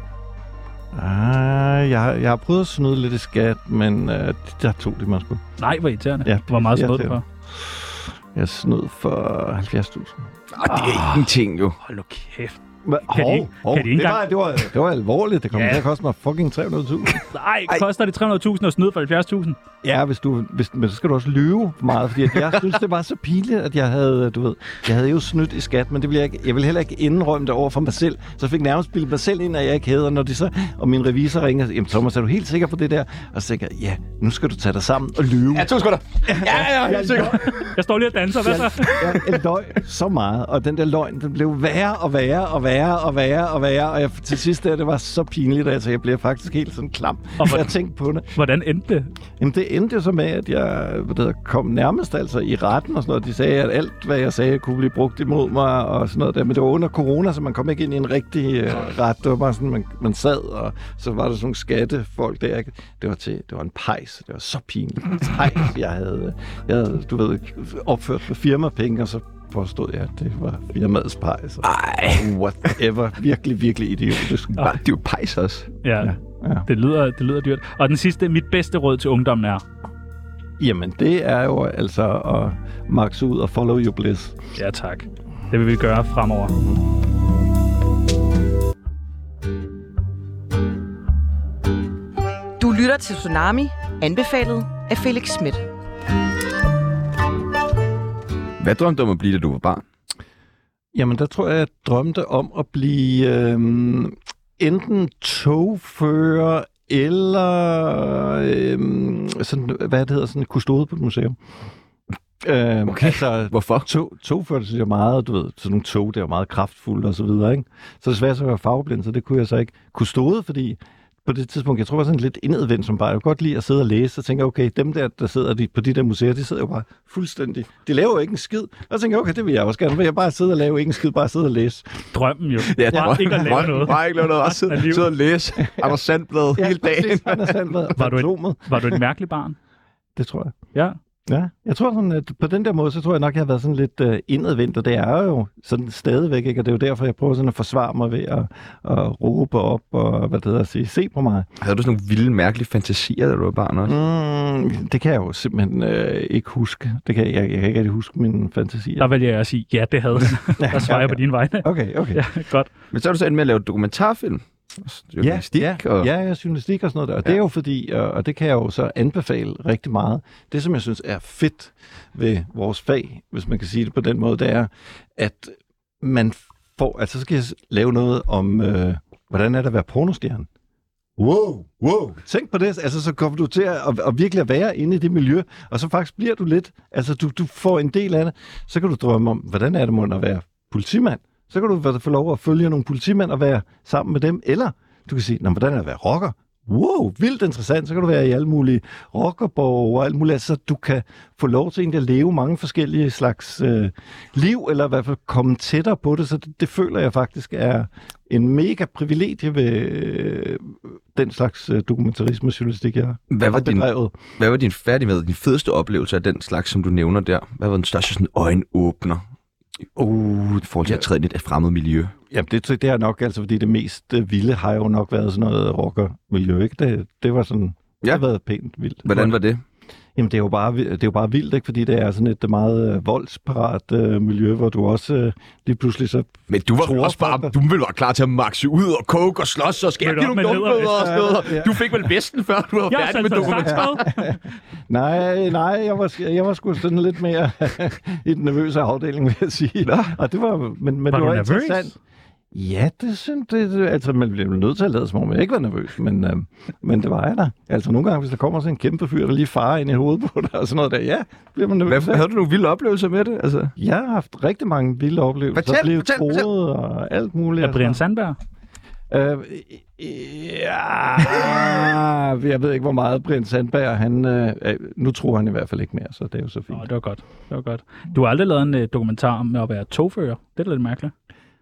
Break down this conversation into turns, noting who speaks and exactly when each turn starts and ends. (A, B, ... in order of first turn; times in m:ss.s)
0:00.9-0:05.4 A
0:05.6-0:07.2 B
0:06.2-0:11.3 A
0:10.5-0:11.8 C
0:10.7-0:11.1 B
0:11.8-0:14.3 B
0:12.8-0:17.2 A
0:15.5-0:15.8 B
0:17.3-0:19.6 B
0:19.8-0:37.6 A
0:35.5-0:37.7 C
0:37.3-0:39.3 B
0:38.4-0:48.2 A
0:47.4-0:47.7 B
0:48.3-0:49.1 B
0:49.4-1:11.7 A
1:11.6-1:12.8 C
1:12.2-1:14.7 A
1:14.6-1:15.7 C
1:15.8-1:16.1 B
1:16.0-1:16.7 A
1:16.6-1:19.6 B
1:20.6-1:24.4 A
1:24.6-1:26.6 B
1:32.6-1:35.6 D
1:38.6-1:39.8 C
1:40.9-1:51.4 A
1:52.4-2:12.0 A
1:52.9-1:53.9 C
2:12.1-2:15.1 B
2:12.6-2:17.9 C
2:12.9-2:13.8 A
2:15.6-2:16.0 A
2:16.6-2:19.0 A
2:18.0-2:19.6 B
2:20.2-2:20.6 A
2:21.3-2:31.5 A
2:31.6-2:34.0 C
2:33.9-2:39.1 A
2:39.0-2:42.7 B
2:40.6-2:42.2 A
2:42.9-2:46.1 C
2:45.2-3:00.5 A
3:01.2-3:34.2 A
3:33.3-3:39.2 C
3:40.0-3:41.1 A
3:40.8-3:42.1 C
3:42.3-3:49.4 A
3:49.0-3:49.6 C
3:50.2-3:57.5 A
3:56.5-4:04.1 C
4:00.0-4:01.2 B
4:00.9-4:01.9 A
4:02.9-4:04.4 B
4:03.4-4:11.9 A
4:09.8-4:10.1 C
4:11.1-4:12.0 B
4:12.5-4:22.3 A
4:21.9-4:23.7 C
4:23.8-4:28.0 A
4:25.5-4:26.5 C
4:27.6-4:28.4 B
4:29.1-4:36.9 A
4:36.7-4:41.1 B